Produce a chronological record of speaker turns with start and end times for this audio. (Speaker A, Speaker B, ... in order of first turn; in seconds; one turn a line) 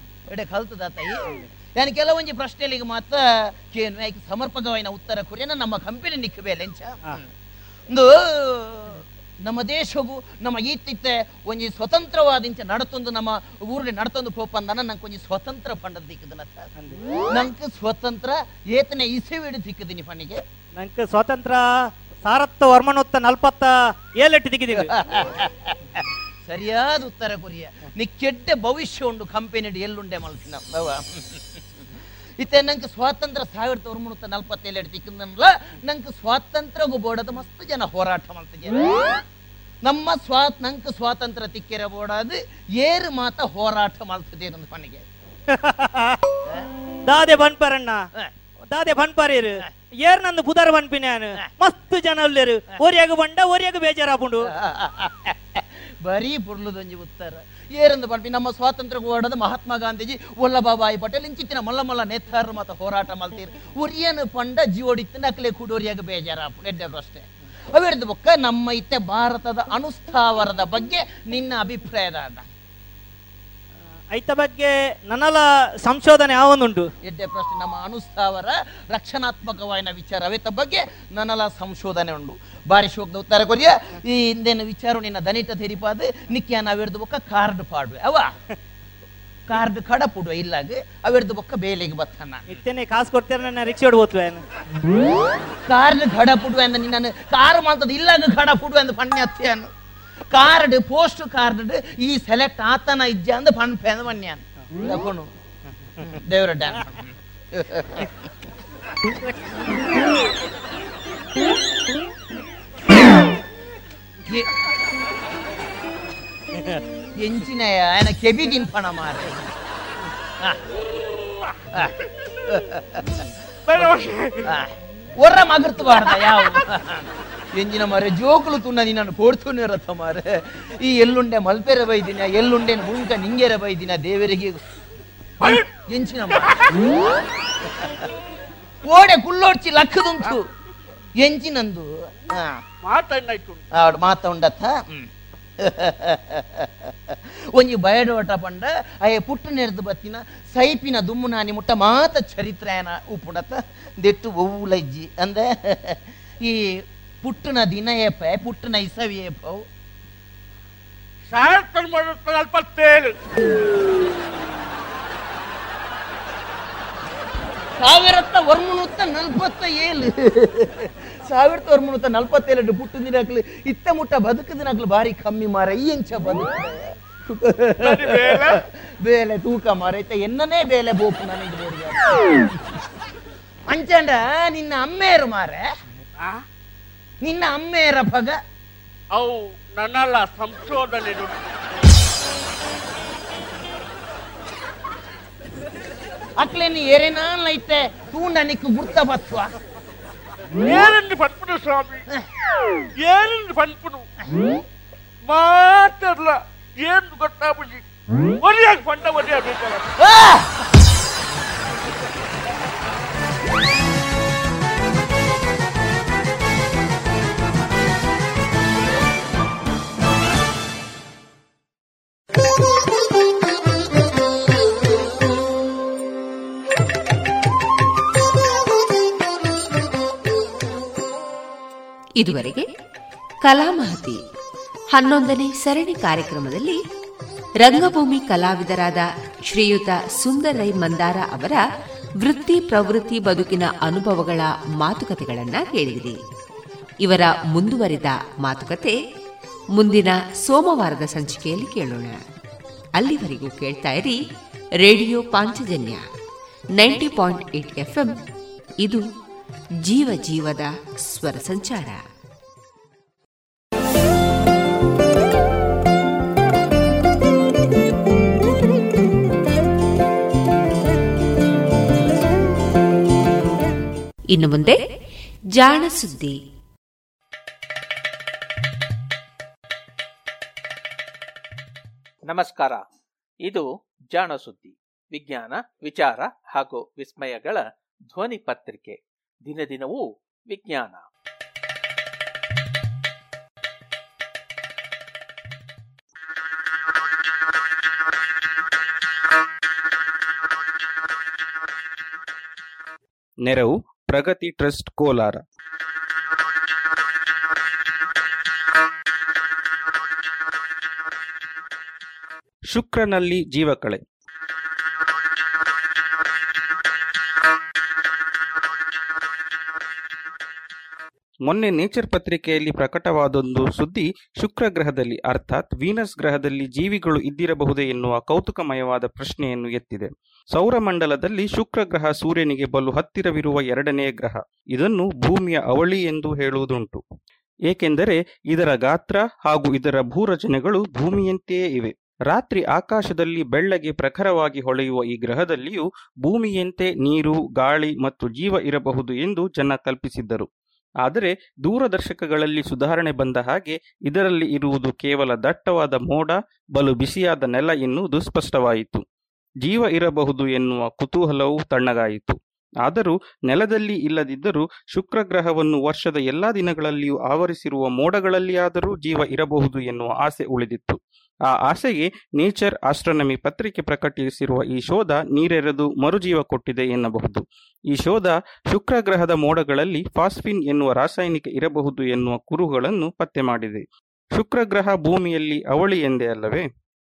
Speaker A: 0.3-7.3
Speaker A: 7.9-16.7
Speaker A: 17.3-20.4
Speaker B: 20.8-24.9
Speaker A: 24.8-25.8
Speaker A: 26.5-31.7
Speaker A: 32.4-39.2
Speaker A: 39.8-45.0
Speaker B: 45.5-46.2
Speaker B: 47.1-48.0
Speaker B: 48.6-54.4
Speaker A: 54.5-72.5
Speaker B: 74.1-76.9
Speaker A: 77.0-88.3
Speaker A: 89.5-92.4
Speaker B: 92.5-94.4
Speaker A: 95.7-99.7
Speaker A: 100.3-105.3
Speaker A: 106.3-108.1
Speaker A: 117.2-119.4
Speaker A: 122.5-123.3
Speaker C: 123.7-124.4
Speaker A: 124.5-134.6
Speaker C: 126.1-126.6
Speaker C: 135.4-135.7
Speaker A: 135.6-136.5
Speaker C: 136.3-136.8
Speaker A: 138.9-140.5
Speaker A: 141.2-142.6
Speaker C: 142.8-143.6
Speaker A: 143.8-145.1
Speaker A: 145.6-159.6
Speaker C: 161.3-163.2
Speaker A: 167.8-182.5
Speaker C: 177.8-178.6
Speaker A: 183.7-185.7
Speaker A: 187.2-188.4
Speaker C: 189.1-191.4
Speaker A: 196.4-199.5
Speaker C: 200.6-202.0
Speaker C: 203.0-204.1
Speaker C: 205.3-207.8
Speaker C: 208.4-209.9
Speaker A: 210.0-210.5
Speaker D: 232.2-232.7
Speaker D: 233.4-234.2
Speaker D: 234.9-236.8
Speaker D: 237.6-241.6
Speaker D: 242.2-246.2
Speaker D: 247.0-249.0
Speaker D: 249.7-252.2
Speaker D: 253.0-254.2
Speaker D: 254.8-256.1
Speaker D: 256.8-258.1
Speaker D: 259.8-262.0
Speaker D: 274.3-274.8
Speaker D: 275.5-276.4
Speaker E: 282.3-282.8
Speaker E: 283.4-291.0
Speaker F: 303.5-305.4
Speaker F: 312.7-314.0
Speaker F: 321.5-337.0
Speaker F: 337.7-350.5
Speaker F: 351.0-359.0
Speaker F: 359.6-371.0
Speaker F: 371.7-383.8
Speaker F: 384.4-386.6